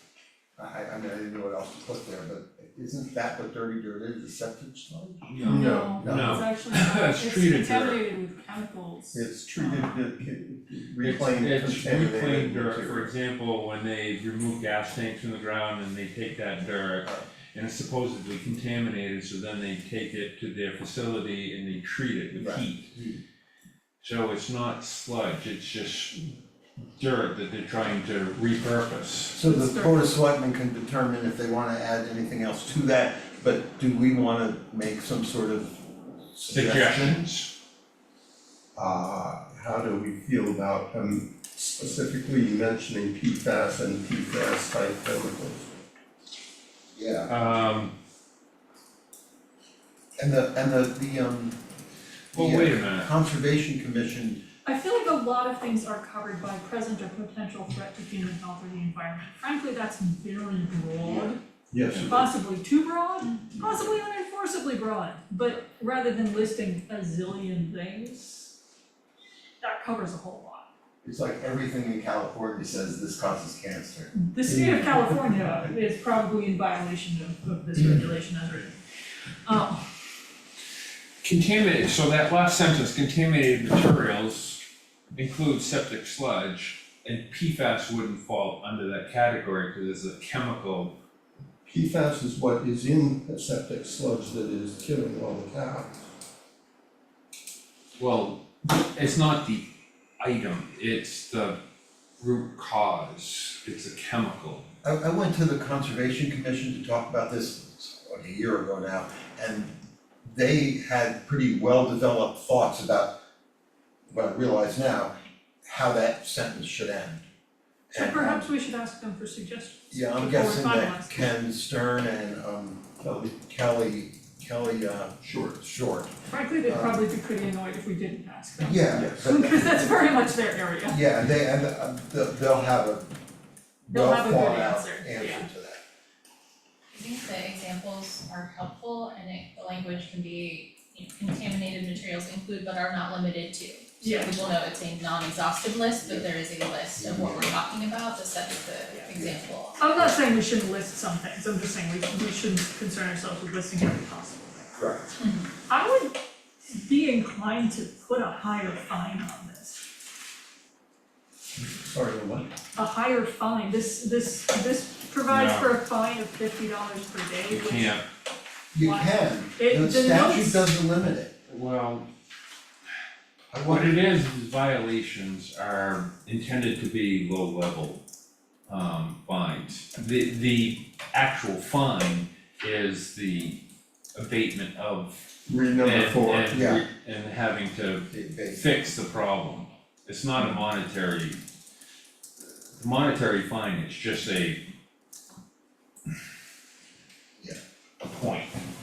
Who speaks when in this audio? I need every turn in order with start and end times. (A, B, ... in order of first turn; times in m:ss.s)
0:00.6-0:06.4 A
0:05.3-0:08.0 B
0:05.4-0:10.0 C
0:09.1-0:13.1 A
0:11.0-0:22.9 B
0:22.4-0:23.2 A
0:24.0-0:26.1 B
0:27.0-0:29.4 B
0:29.3-0:37.2 A
0:29.4-0:30.2 C
0:36.5-0:37.5 B
0:38.8-0:45.7 D
0:46.9-0:47.3 A
0:47.3-0:47.9 B
0:50.2-0:51.6 A
0:52.3-0:53.1 B
0:52.3-0:54.4 A
0:54.6-1:01.4 C
1:01.7-1:02.1 D
1:02.0-1:08.5 C
1:09.6-1:10.6 C
1:11.0-1:14.1 A
1:14.1-1:18.8 C
1:14.5-1:15.2 D
1:19.4-1:19.9 C
1:21.2-1:24.6 B
1:25.2-1:30.9 B
1:31.6-1:36.0 D
1:38.0-1:39.7 B
1:40.2-1:41.6 B
1:42.2-1:44.7 B
1:44.8-1:49.7 A
1:50.2-1:53.1 A
1:54.1-1:55.1 A
1:55.6-1:57.2 A
1:57.9-1:58.5 A
1:57.9-2:01.2 C
1:59.9-2:06.1 A
2:05.2-2:05.6 D
2:06.2-2:11.0 C
2:06.6-2:07.0 A
2:08.6-2:10.1 A
2:10.8-2:13.1 A
2:13.8-2:15.8 A
2:13.9-2:15.5 C
2:16.9-2:29.8 E
2:24.0-2:24.4 C
2:27.0-2:27.6 A
2:29.1-2:29.4 A
2:29.8-2:34.7 C
2:34.8-2:35.1 A
2:35.2-2:35.5 E
2:35.7-2:36.2 C
2:36.7-2:39.8 C
2:41.6-2:42.5 A
2:42.8-2:48.0 C
2:45.3-2:45.7 B
2:47.5-2:48.0 B
2:48.7-2:51.3 A
2:48.8-2:50.7 C
2:51.5-2:52.1 B
2:53.5-2:54.0 A
2:53.6-2:58.0 B
2:58.7-3:03.6 B
3:04.1-3:05.3 B
3:05.5-3:06.5 D
3:05.8-3:11.4 B
3:06.5-3:06.8 A
3:08.1-3:08.7 A
3:12.8-3:14.6 B
3:18.0-3:18.6 B